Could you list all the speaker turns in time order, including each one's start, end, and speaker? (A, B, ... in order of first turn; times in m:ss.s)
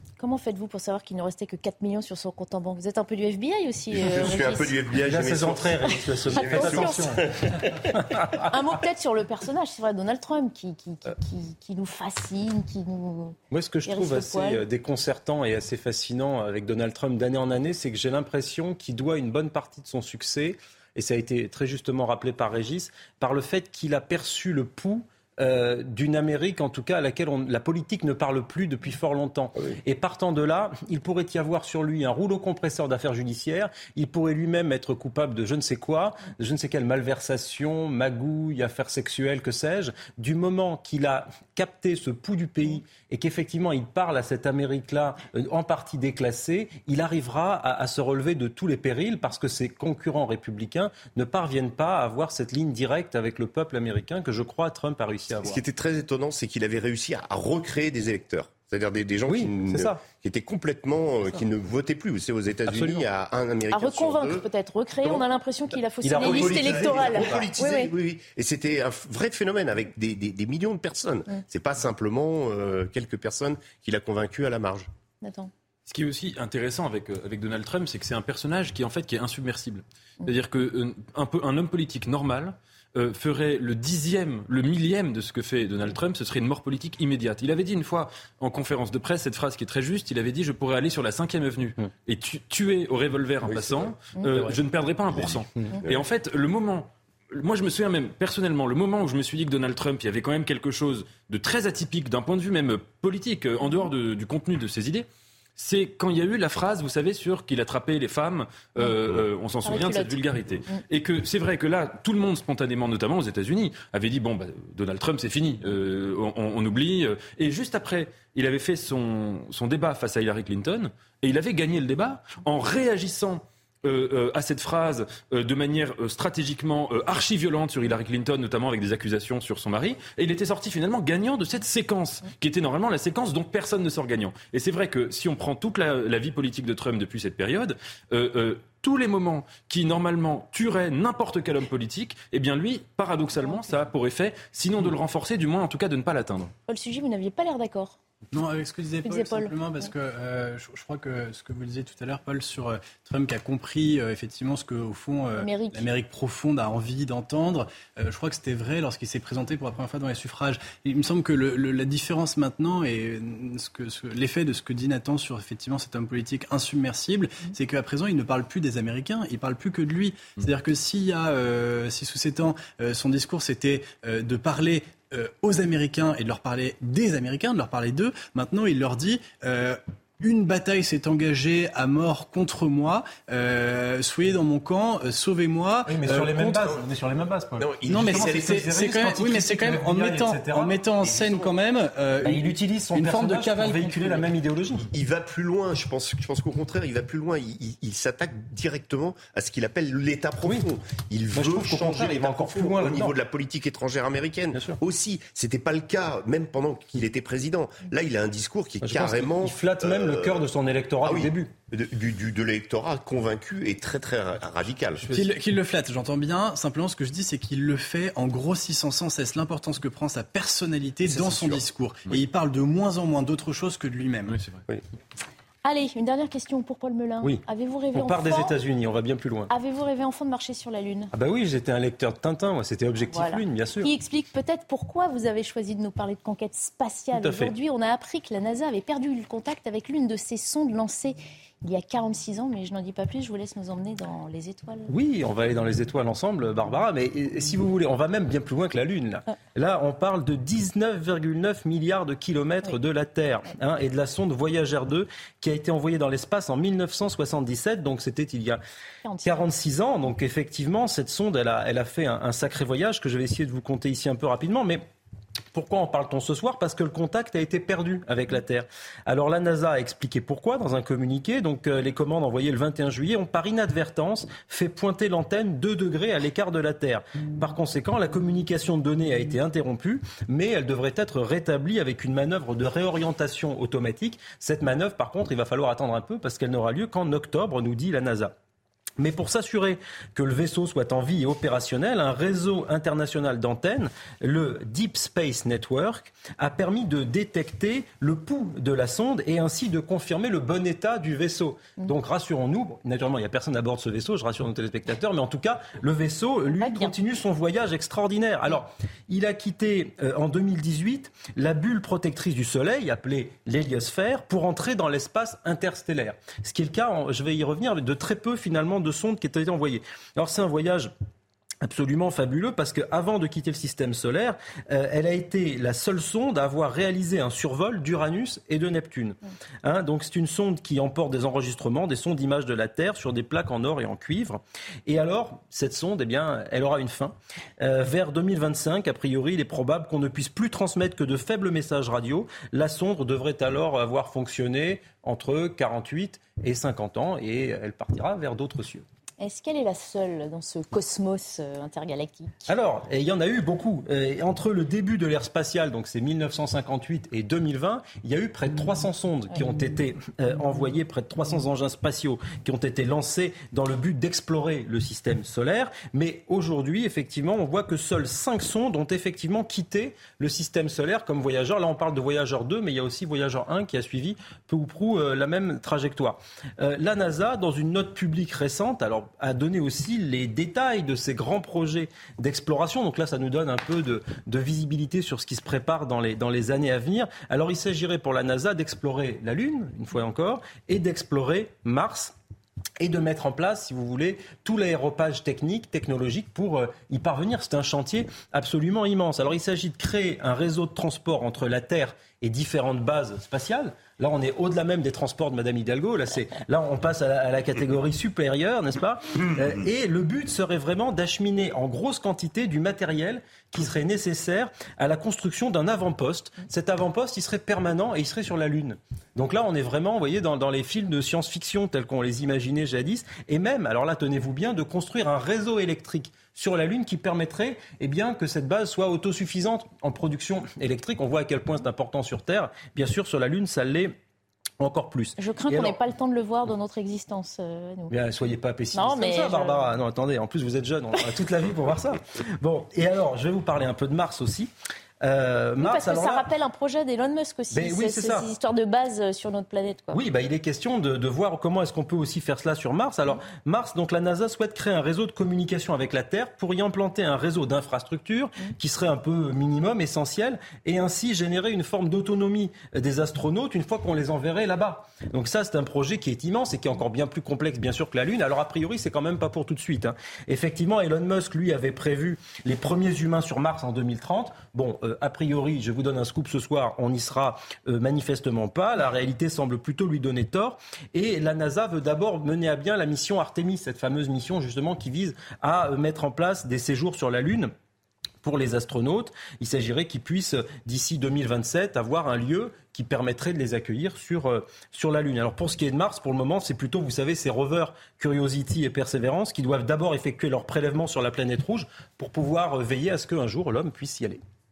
0:00.2-0:04.7 A
0:03.9-0:07.7 B
0:05.0-0:08.4 C
0:06.4-0:07.0 A
0:08.4-0:14.6 A
0:13.5-0:55.6 C
0:55.4-1:04.4 B
0:59.3-1:00.1 C
1:02.7-1:03.0 C
1:03.7-1:07.9 A
1:06.0-1:07.4 C
1:06.1-1:14.9 B
1:15.2-1:15.5 A
1:15.9-2:26.5 D
1:33.6-1:33.9 B
1:35.2-1:36.0 B
1:49.6-1:50.2 A
2:26.7-2:28.0 A
2:28.3-3:06.8 E
2:29.0-2:29.5 A
2:35.4-2:35.9 A
3:05.9-3:11.4 C
3:07.6-3:08.4 B
3:07.9-3:14.3 E
3:12.2-3:14.9 C
3:14.9-3:30.5 B
3:21.3-3:23.1 C
3:28.8-3:31.5 C
3:31.0-3:35.1 B
3:35.0-3:35.3 C
3:35.1-3:44.5 E
3:41.1-3:41.6 B
3:45.6-3:48.6 A
3:47.2-3:49.5 C
3:49.5-3:51.1 A
3:51.1-3:53.9 C
3:53.1-4:04.9 A
3:57.2-3:57.5 C
4:04.9-4:18.6 C
4:19.0-4:19.4 A
4:19.2-4:24.8 C
4:25.5-4:48.4 C
4:49.0-5:20.9 C
5:06.6-5:06.9 A
5:21.6-5:48.8 C
5:49.2-5:52.5 A
5:52.5-6:32.1 C
6:32.8-7:14.0 C
7:14.6-7:15.8 C
7:15.2-7:17.9 A
7:17.9-7:24.5 C
7:18.7-7:19.6 A
7:25.0-7:26.3 C
7:25.6-7:30.0 A
7:27.5-7:28.3 C
7:29.9-8:07.5 C
8:08.2-8:24.2 C